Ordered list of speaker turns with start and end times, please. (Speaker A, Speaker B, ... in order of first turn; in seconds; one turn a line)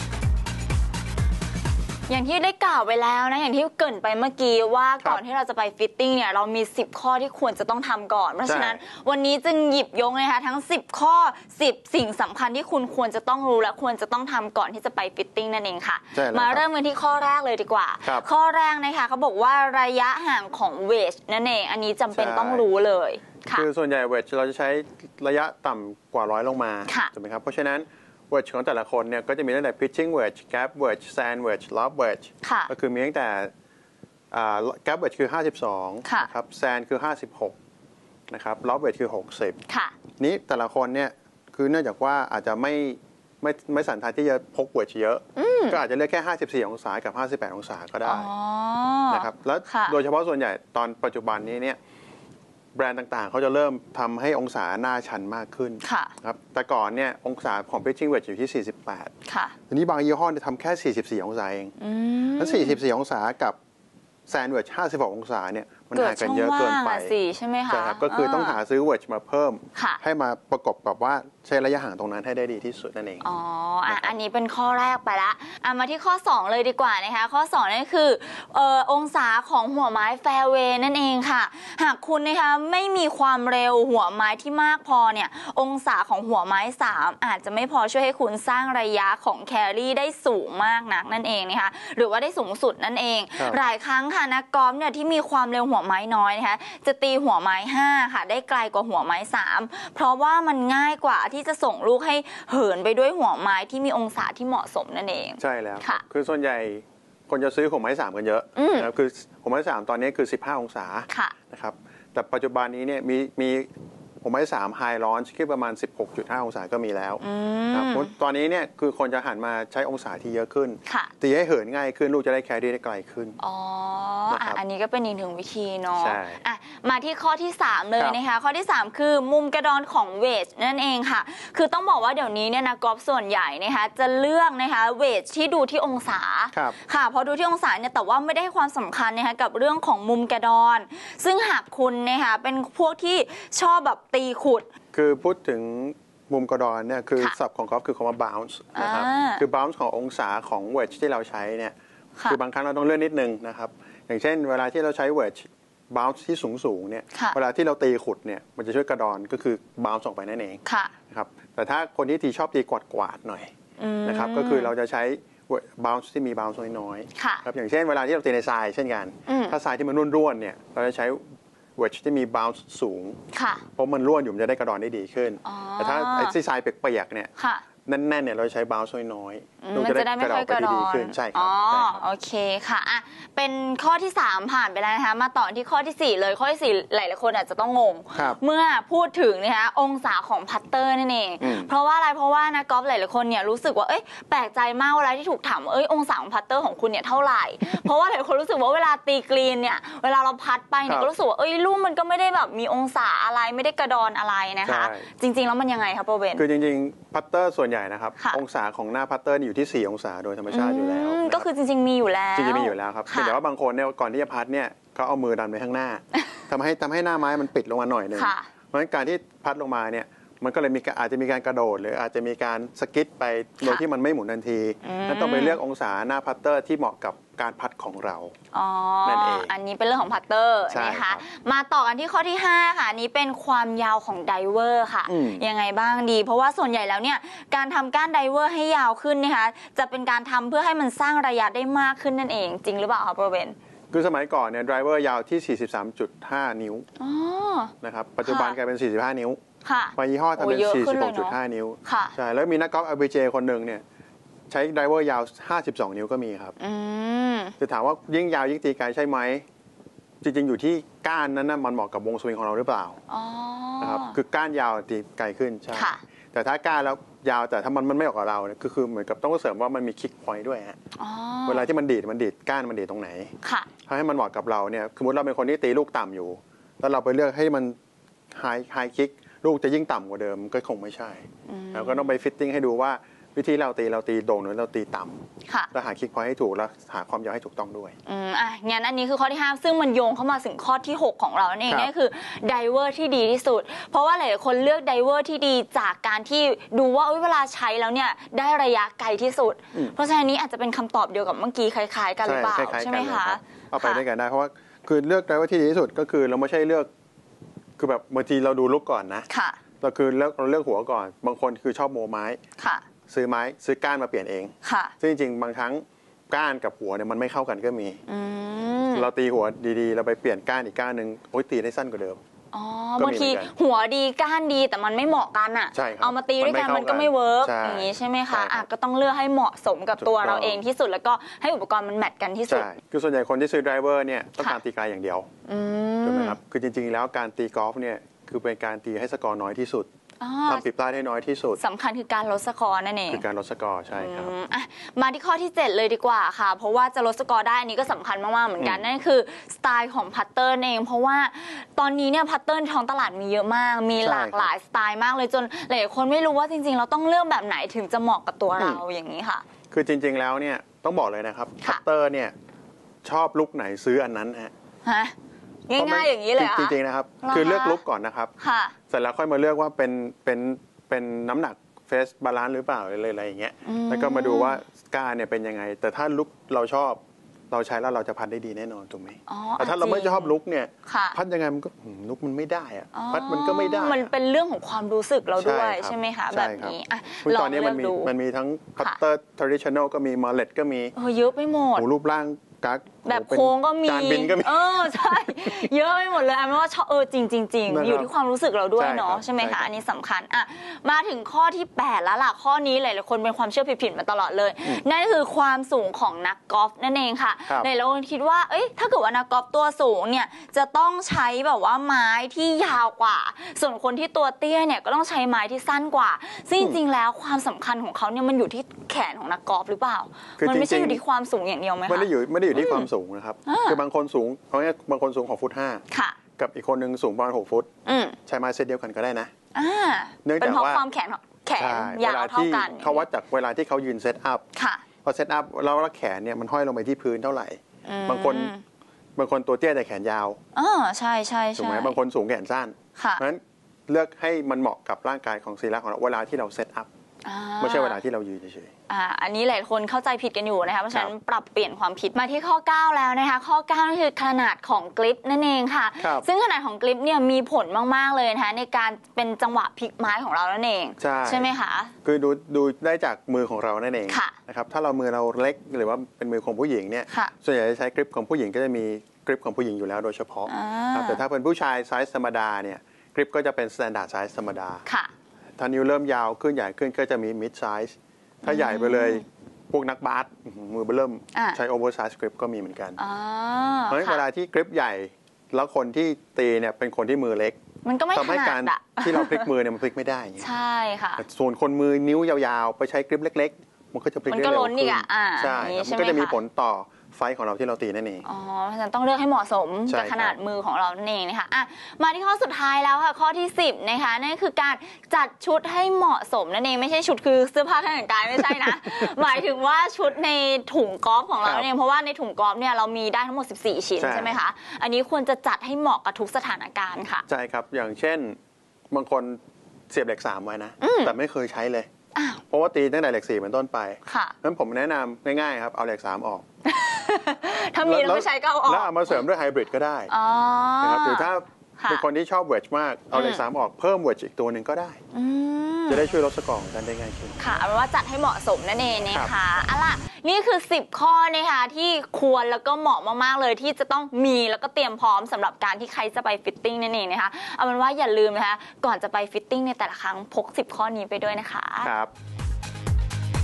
Speaker A: 2.1-23.7
Speaker B: 8.4-8.8
Speaker B: 16.1-16.6
Speaker B: 22.1-22.7
Speaker B: 23.5-33.5
Speaker A: 26.9-27.1
Speaker A: 32.4-32.7
Speaker B: 34.3-37.6
Speaker A: 36.0-36.3
Speaker B: 38.3-39.6
Speaker A: 39.7-40.0
Speaker B: 40.2-48.3
Speaker A: 45.4-45.8
Speaker A: 48.0-50.0
Speaker B: 49.1-51.8
Speaker B: 52.7-59.1
Speaker A: 55.8-56.1
Speaker A: 59.3-59.5
Speaker B: 59.7-61.8
Speaker A: 61.8-62.8
Speaker B: 62.4-63.6
Speaker B: 64.3-67.2
Speaker A: 66.0-68.6
Speaker B: 67.7-73.2
Speaker A: 69.8-70.0
Speaker A: 73.2-106.0
Speaker B: 73.9-74.1
Speaker B: 105.4-113.7
Speaker A: 108.6-108.9
Speaker A: 111.1-111.3
Speaker B: 114.2-123.4
Speaker A: 117.2-118.1
Speaker A: 120.9-121.1
Speaker A: 123.4-144.7
Speaker B: 124.3-124.6
Speaker B: 126.0-126.4
Speaker B: 144.9-163.5
Speaker A: 148.8-149.4
Speaker A: 157.1-157.4
Speaker A: 160.7-160.9
Speaker A: 163.8-164.7
Speaker B: 164.0-171.2
Speaker A: 167.2-167.4
Speaker A: 169.3-169.6
Speaker B: 171.8-173.2
Speaker A: 173.3-173.6
Speaker B: 173.7-177.3
Speaker A: 175.4-176.4
Speaker A: 177.4-177.6
Speaker B: 177.9-182.0
Speaker A: 179.6-206.4
Speaker B: 188.1-188.4
Speaker B: 191.4-191.7
Speaker B: 204.6-205.1
Speaker B: 206.4-211.5
Speaker A: 208.2-208.4
Speaker A: 210.5-213.4
Speaker B: 212.3-228.3
Speaker A: 218.2-218.5
Speaker A: 224.8-225.6
Speaker A: 228.5-243.6
Speaker B: 229.0-229.5
Speaker B: 230.7-231.2
Speaker B: 235.1-235.4
Speaker B: 243.9-246.9
Speaker A: 247.0-248.6
Speaker B: 247.8-249.4
Speaker A: 249.6-252.2
Speaker B: 250.0-253.8
Speaker B: 254.5-256.6
Speaker A: 256.6-257.6
Speaker B: 257.6-259.4
Speaker B: 260.2-263.0
Speaker A: 263.1-264.2
Speaker B: 263.8-270.8
Speaker A: 265.7-266.0
Speaker A: 271.0-271.7
Speaker B: 271.5-273.3
Speaker A: 273.4-273.7
Speaker B: 273.9-277.8
Speaker B: 278.3-285.2
Speaker A: 281.5-282.2
Speaker A: 285.5-285.7
Speaker B: 285.7-287.9
Speaker A: 288.1-304.0
Speaker B: 302.2-306.9
Speaker B: 307.8-309.3
Speaker A: 309.3-309.6
Speaker B: 309.8-312.4
Speaker A: 312.6-312.9
Speaker B: 313.1-318.0
Speaker A: 314.6-314.9
Speaker A: 318.1-319.1
Speaker B: 318.9-322.2
Speaker A: 322.5-332.7
Speaker B: 323.0-323.5
Speaker B: 325.7-328.7
Speaker B: 330.0-330.6
Speaker B: 332.5-335.3
Speaker A: 335.5-336.4
Speaker B: 336.0-339.9
Speaker A: 340.2-340.6
Speaker B: 340.5-341.6
Speaker A: 341.6-343.2
Speaker B: 343.1-344.3
Speaker A: 343.9-359.4
Speaker B: 348.6-348.9
Speaker B: 354.0-354.5
Speaker B: 358.6-358.8
Speaker B: 359.7-362.3
Speaker B: 363.0-364.5
Speaker A: 364.9-365.1
Speaker A: 365.7-367.8
Speaker B: 365.8-368.3
Speaker A: 368.4-368.8
Speaker B: 368.9-384.1
Speaker A: 373.6-374.6
Speaker A: 379.3-381.2
Speaker A: 382.9-388.1
Speaker B: 385.4-390.9
Speaker A: 390.9-391.9
Speaker B: 391.8-394.9
Speaker A: 393.1-422.9
Speaker B: 397.7-398.1
Speaker B: 398.8-399.7
Speaker B: 420.4-421.0
Speaker B: 421.9-425.8
Speaker A: 423.5-423.8
Speaker A: 425.9-426.2
Speaker B: 426.4-427.7
Speaker A: 427.9-428.2
Speaker B: 428.3-429.3
Speaker A: 429.5-433.1
Speaker B: 430.2-430.8
Speaker B: 431.6-434.4
Speaker A: 434.6-434.8
Speaker B: 435.0-438.5
Speaker A: 437.9-438.6
Speaker B: 439.2-440.4
Speaker A: 440.6-441.9
Speaker B: 441.6-446.9
Speaker A: 443.0-443.2
Speaker A: 447.2-448.0
Speaker B: 447.6-448.7
Speaker A: 448.9-461.9
Speaker B: 456.0-456.3
Speaker B: 461.0-461.5
Speaker B: 462.0-474.8
Speaker A: 464.1-464.4
Speaker A: 470.5-471.2
Speaker A: 474.9-475.1
Speaker B: 475.6-477.9
Speaker A: 478.4-479.2
Speaker B: 478.4-483.0
Speaker A: 483.0-484.2
Speaker B: 483.9-487.6
Speaker A: 487.8-489.4
Speaker B: 488.1-490.5
Speaker A: 490.4-491.2
Speaker B: 491.2-498.2
Speaker A: 494.3-496.4
Speaker A: 498.2-517.2
Speaker B: 499.9-500.4
Speaker B: 511.4-511.7
Speaker B: 514.0-514.4
Speaker B: 517.3-518.4
Speaker B: 518.9-519.4
Speaker B: 519.9-521.9
Speaker A: 520.8-521.1
Speaker A: 522.1-522.4
Speaker B: 522.5-526.4
Speaker A: 524.1-524.4
Speaker A: 526.7-529.2
Speaker B: 527.8-530.1
Speaker A: 530.1-532.0
Speaker B: 530.8-535.0
Speaker A: 533.1-533.4
Speaker A: 535.1-536.1
Speaker B: 535.9-537.6
Speaker A: 537.4-551.9
Speaker B: 539.1-539.4
Speaker B: 551.8-552.1